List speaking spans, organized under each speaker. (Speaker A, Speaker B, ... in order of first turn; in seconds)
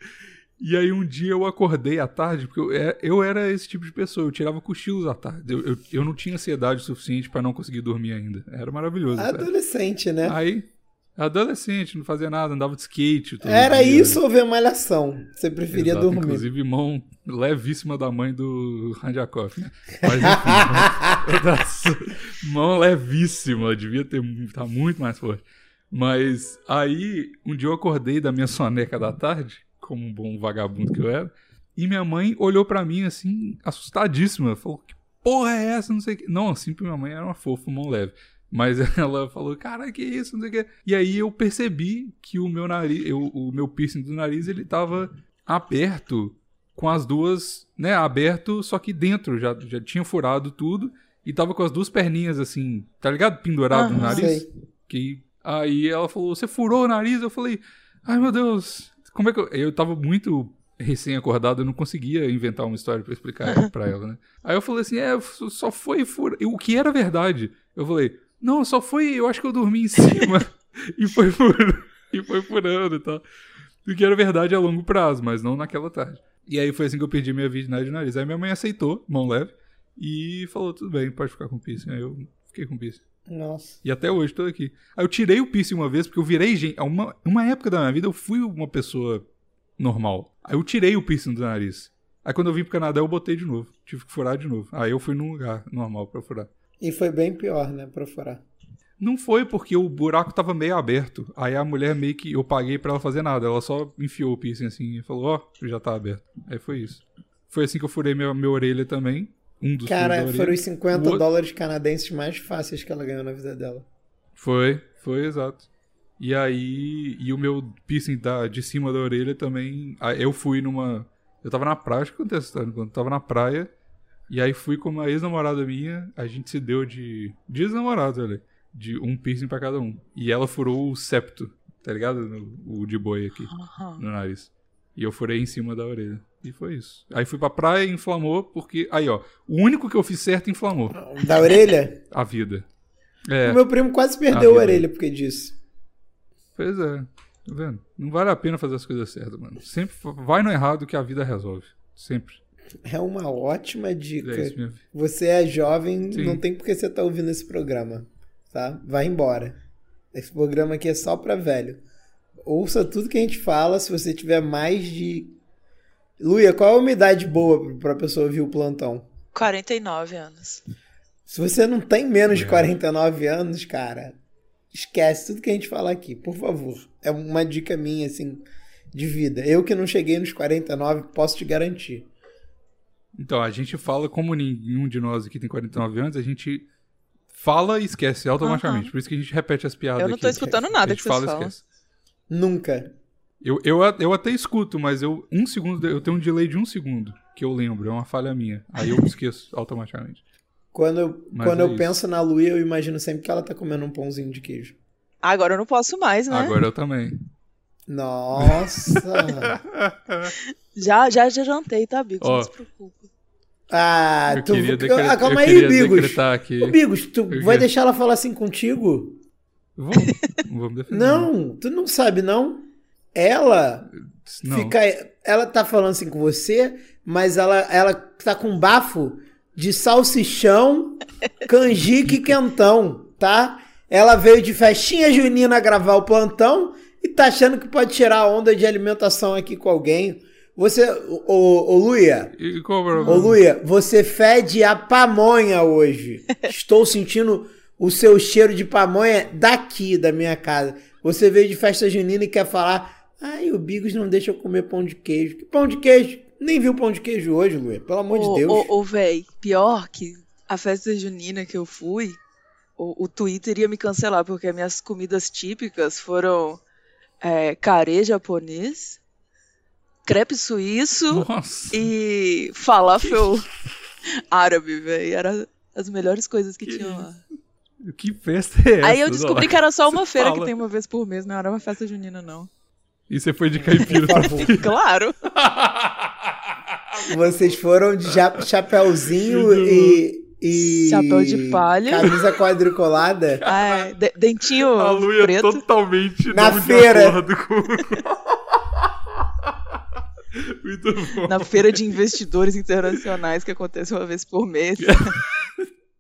Speaker A: 0.6-9.5, 10.2-14.2, 15.7-73.2, 73.8-83.0, 83.8-89.2, 89.8-96.5, 99.0-111.2, 114.4-115.7, 116.2-123.7, 124.3-141.0, 142.1-142.7, 143.3-143.6, 144.3-144.9, 146.6-152.4, 154.2-154.8, 156.1-156.4, 172.3-172.7, 183.2-186.7, 187.3-191.6, 193.4-200.2, 201.3-202.0, 206.3-207.2, 208.4-210.3, 212.2-212.5, 214.3-216.8, 217.3-217.7, 219.8-221.3, 224.1-224.8, 232.1-232.4, 242.4-243.4, 271.1-271.9, 273.0-273.4, 276.6-277.1, 277.8-280.5, 283.1-287.2, 288.1-290.0, 293.4-299.6, 300.3-302.0, 304.8-305.7
Speaker B: 9.2-10.4, 13.4-16.5, 20.0-21.2, 54.0-54.5, 83.3-83.8, 96.8-98.4, 109.8-113.8, 140.9-142.0, 143.4-145.6, 152.8-159.6, 160.1-161.8, 162.4-165.3, 166.2-169.1, 171.3-174.2, 174.7-182.1, 192.3-192.9, 200.7-204.8, 207.9-209.6, 213.7-219.2, 220.9-223.9, 224.4-242.4, 243.0-258.7, 283.9-284.6, 287.0-293.4, 296.3-297.2
Speaker C: 53.7-54.4, 133.5-134.1, 169.3-170.6, 188.4-188.9, 190.0-191.5, 205.2-206.6, 210.4-213.1, 220.0-220.3, 243.0-243.3, 258.1-262.2, 262.8-266.6, 267.2-269.0, 270.1-273.5, 274.1-277.2, 278.8-282.5, 283.7-285.2, 290.7-292.1, 293.5-295.6, 301.3-305.2